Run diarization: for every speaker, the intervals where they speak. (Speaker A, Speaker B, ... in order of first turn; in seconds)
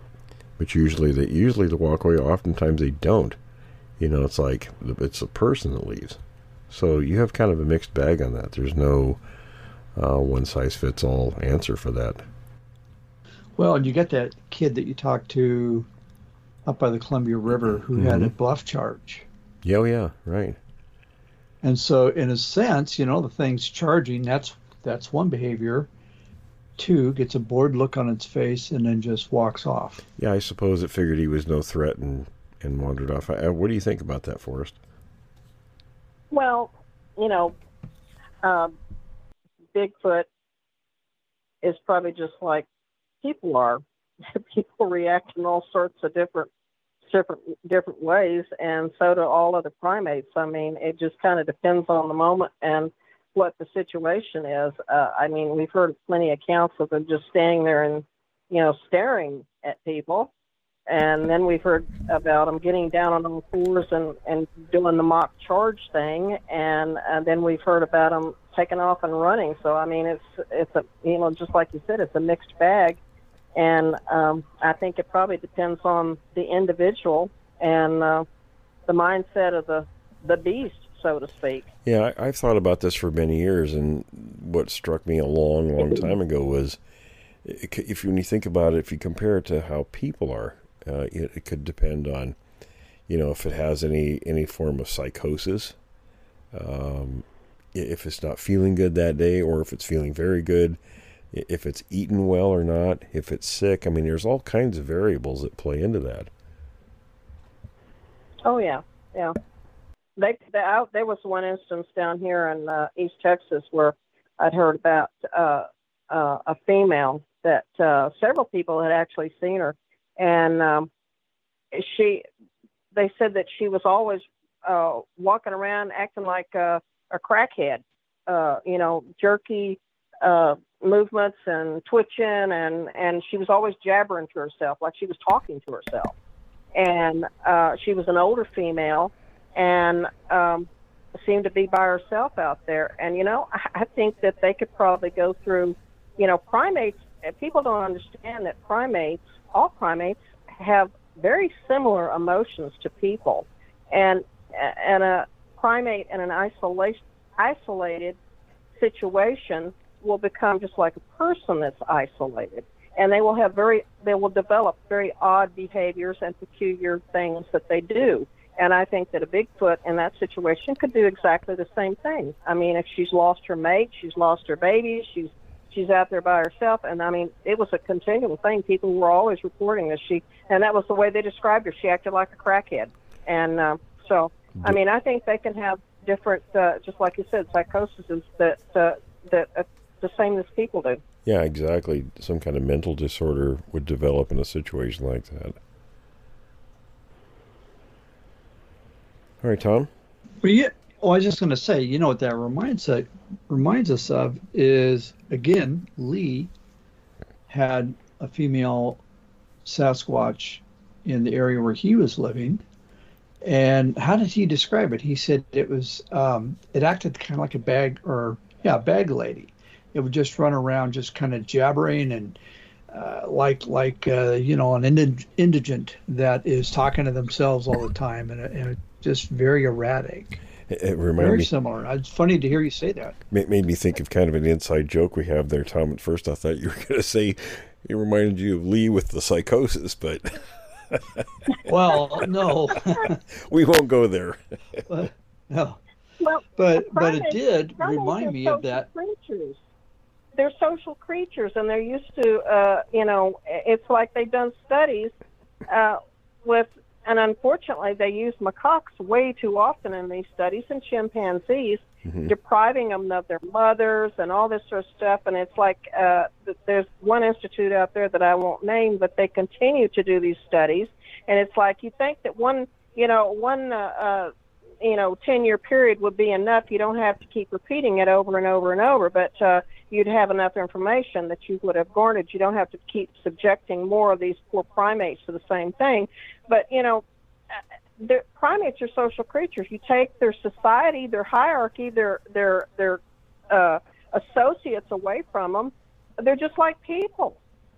Speaker A: 0.6-3.4, 4.0-9.2, 10.0-12.2, 17.9-18.3, 19.6-20.6, 30.2-34.8, 81.8-86.8, 87.4-92.4, 93.1-95.8, 96.5-100.8, 101.3-106.3, 191.2-195.6, 199.4-199.9, 230.7-231.5, 233.3-241.3, 243.1-244.8, 262.1-262.3
Speaker B: 13.6-15.9, 16.7-19.2, 21.6-25.9, 26.8-30.0, 200.4-206.5, 207.5-209.0, 209.7-212.6, 213.4-222.4, 222.9-230.4, 231.2-233.2, 241.7-243.2, 244.9-245.8, 246.6-248.9
Speaker C: 36.3-37.5, 38.4-38.7, 39.7-40.3, 41.6-42.7, 43.2-46.5, 47.1-60.3, 60.9-73.0, 73.6-78.2, 78.9-81.7, 108.5-109.3, 110.2-120.9, 121.7-122.2, 122.9-136.1, 136.7-140.7, 141.2-158.2, 158.8-191.0, 246.2-249.6, 250.4-255.1, 255.7-297.4